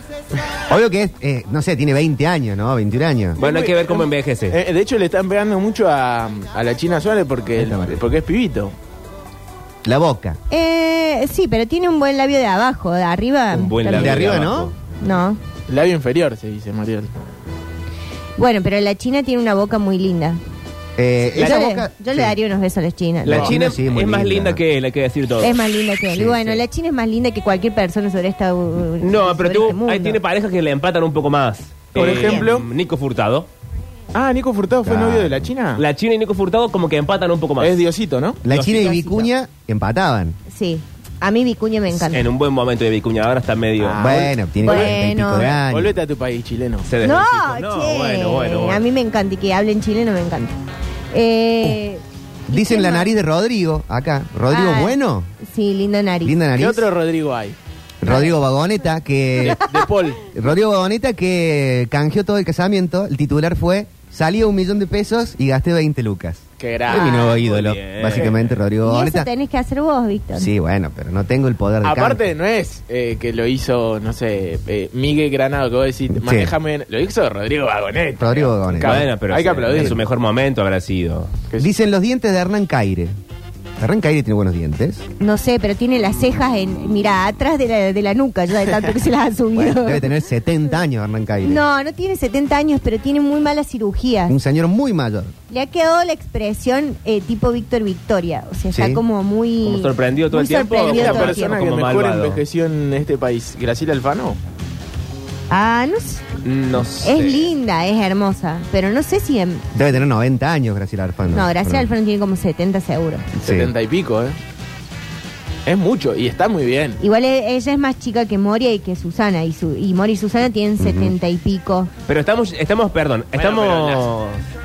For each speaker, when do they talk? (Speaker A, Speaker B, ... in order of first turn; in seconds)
Speaker A: 0.7-3.4, 7.5-8.0, 9.8-10.4, 13.9-14.7, 21.0-22.4, 23.2-24.6, 34.8-35.5, 38.4-40.4, 44.0-46.0, 52.5-55.3, 56.2-56.9, 58.0-59.6, 60.3-69.3, 70.3-72.3, 76.1-76.5, 78.2-79.1, 79.7-80.0, 81.6-83.1, 83.8-85.0, 89.5-91.6, 94.3-95.3, 98.7-99.0, 109.7-111.9, 113.4-113.7, 120.8-121.1
Speaker B: 3.4-4.6, 13.5-14.7, 23.2-25.6, 26.1-26.6, 29.0-33.5, 35.8-37.8, 38.5-39.3, 42.0-44.9, 46.8-48.8, 67.3-68.6, 78.8-81.3, 99.6-102.4, 106.4-107.5, 122.1-124.4
Speaker C: 3.4-8.7, 15.7-17.1, 31.9-32.7, 34.1-35.8, 37.6-38.4, 43.8-44.3, 45.3-46.9, 56.5-57.6, 59.4-60.2, 66.6-67.4, 71.8-80.0, 100.8-104.4, 113.4-114.4, 115.7-117.0, 123.3-124.1
Speaker D: 10.5-15.4, 18.4-20.4, 21.2-23.6, 25.4-30.2, 31.9-32.5, 40.5-42.3, 44.6-45.5, 47.0-50.6, 51.1-53.1, 54.5-56.4, 58.0-58.3, 68.8-70.5, 85.2-90.1, 91.4-94.4, 95.5-101.5, 105.5-106.2, 107.0-109.7, 111.3-113.3, 117.0-121.9